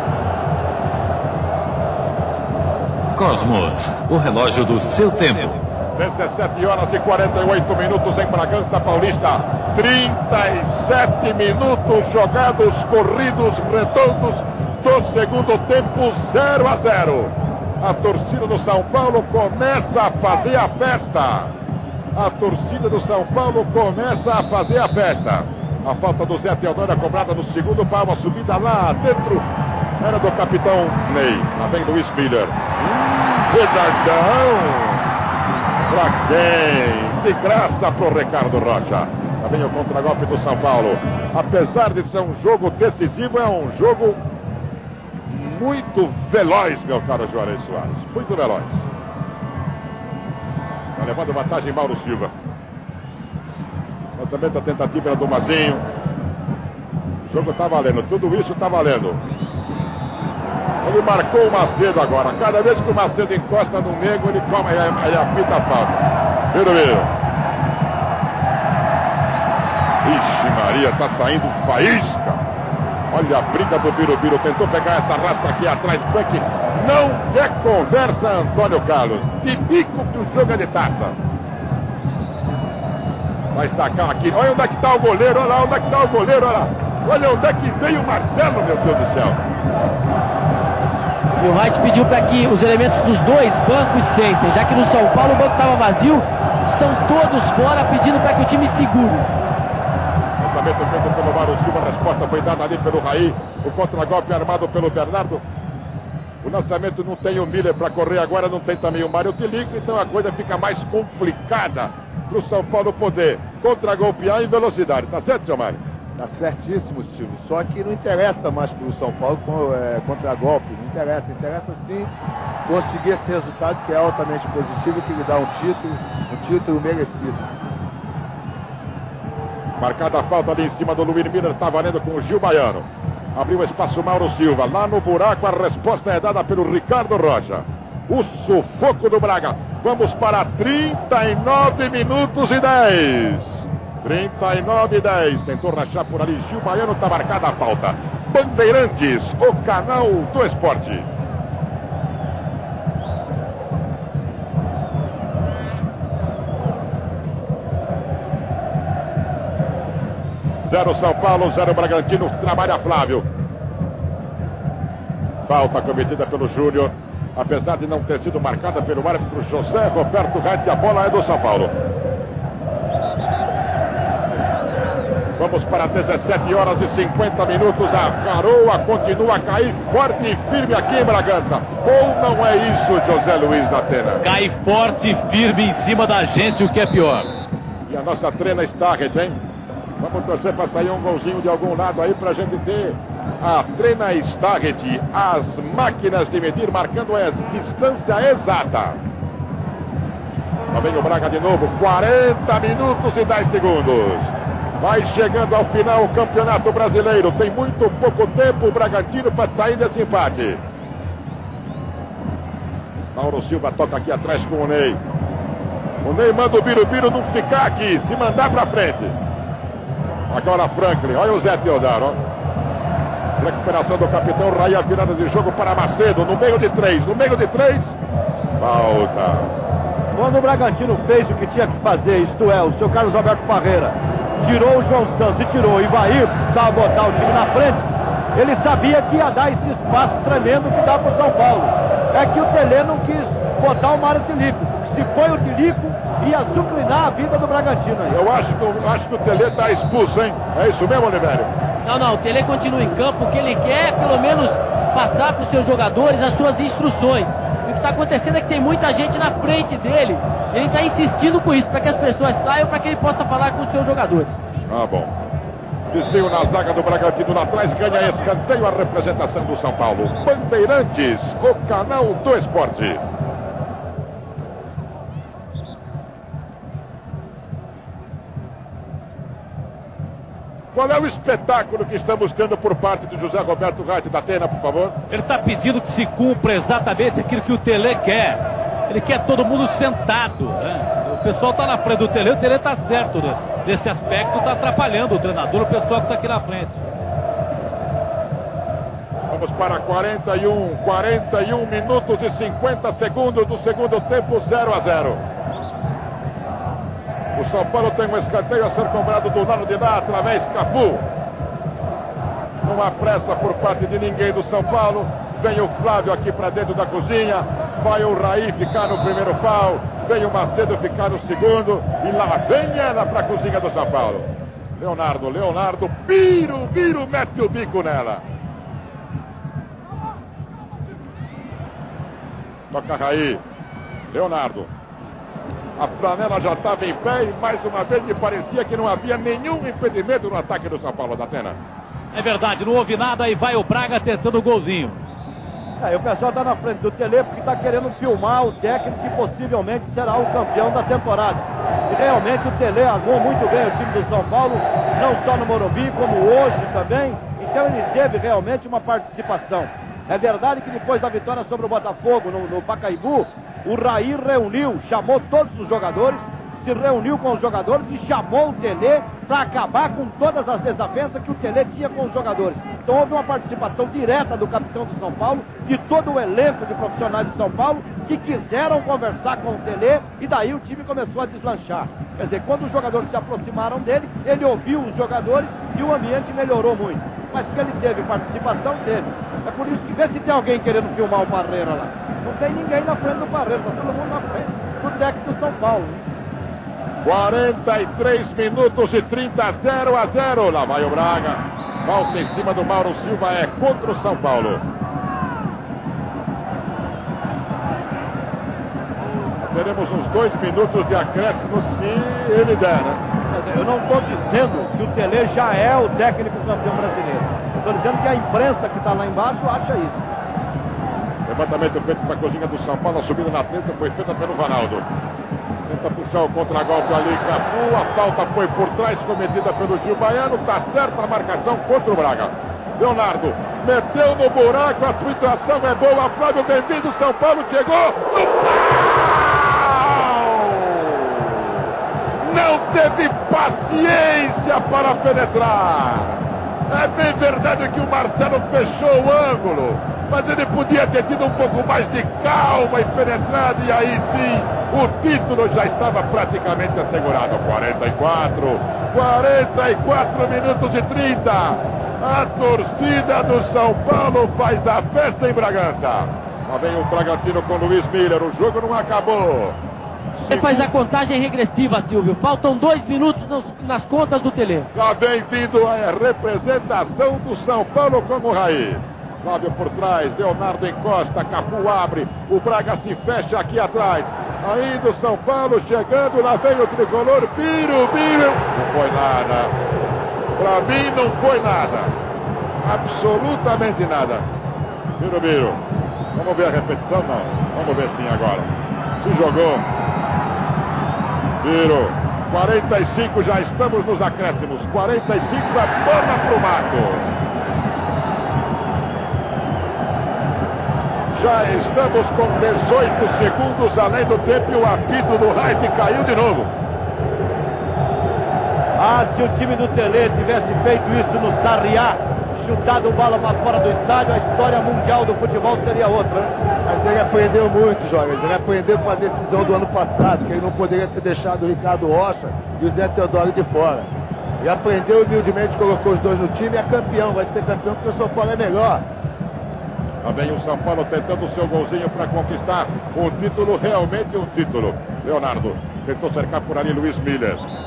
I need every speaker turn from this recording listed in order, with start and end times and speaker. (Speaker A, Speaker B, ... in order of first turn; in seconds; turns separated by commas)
Speaker A: 3.1-5.6, Speaker B: 6.0-21.5, Speaker B: 22.1-29.4, Speaker B: 30.0-35.1, Speaker B: 35.9-44.2, Speaker B: 45.3-48.8, Speaker B: 51.0-52.3, Speaker B: 54.2-55.8, Speaker B: 57.3-59.2, Speaker B: 60.8-67.1, Speaker B: 70.0-72.4, Speaker B: 73.1-81.2, Speaker B: 83.5-89.4, Speaker C: 91.4-99.2, Speaker B: 100.4-105.4, Speaker B: 106.4-115.8, Speaker D: 116.2-122.1, Speaker D: 122.7-127.5, Speaker B: 129.8-151.1, Speaker B: 160.7-163.2, Speaker B: 165.5-171.7, Speaker B: 175.4-184.2, Speaker E: 184.2-187.3, Speaker B: 187.9-189.4, Speaker B: 190.0-199.0, Speaker B: 200.7-210.6, Speaker B: 213.1-215.0, Speaker B: 216.0-219.2, Speaker B: 220.3-222.2, Speaker B: 223.4-228.0, Speaker B: 228.6-229.5, Speaker F: 230.1-248.1, Speaker B: 248.1-251.5, Speaker C: 251.8-264.4, Speaker B: 264.7-265.1, Speaker B: 265.9-273.0, Speaker B: 280.7-284.9, Speaker E: 285.1-296.8, Speaker B: 299.3-305.2, Speaker B: 307.3-311.0, Speaker B: 312.6-328.2, Speaker B: 332.7-333.4, Speaker B: 334.1-334.7, Speaker B: 335.8-341.6, Speaker E: 342.1-345.0, Speaker F: 345.8-396.0, Speaker B: 397.0-404.6, Speaker B: 409.4-413.0, Speaker F: 413.3-420.1, Speaker B: 421.2-424.8, Speaker B: 425.7-441.6, Speaker B: 442.2-469.6, Speaker B: 470.2-470.7, Speaker C: 470.3-474.7, Speaker B: 474.7-489.5, Speaker B: 490.4-491.9, Speaker B: 492.6-494.2, Speaker B: 495.0-495.6, Speaker B: 496.1-498.5, Speaker B: 499.0-499.7, Speaker B: 501.4-507.1, Speaker B: 511.1-516.5, Speaker F: 518.8-526.4, Speaker D: 526.6-533.9, Speaker D: 534.4-538.8, Speaker B: 540.0-547.4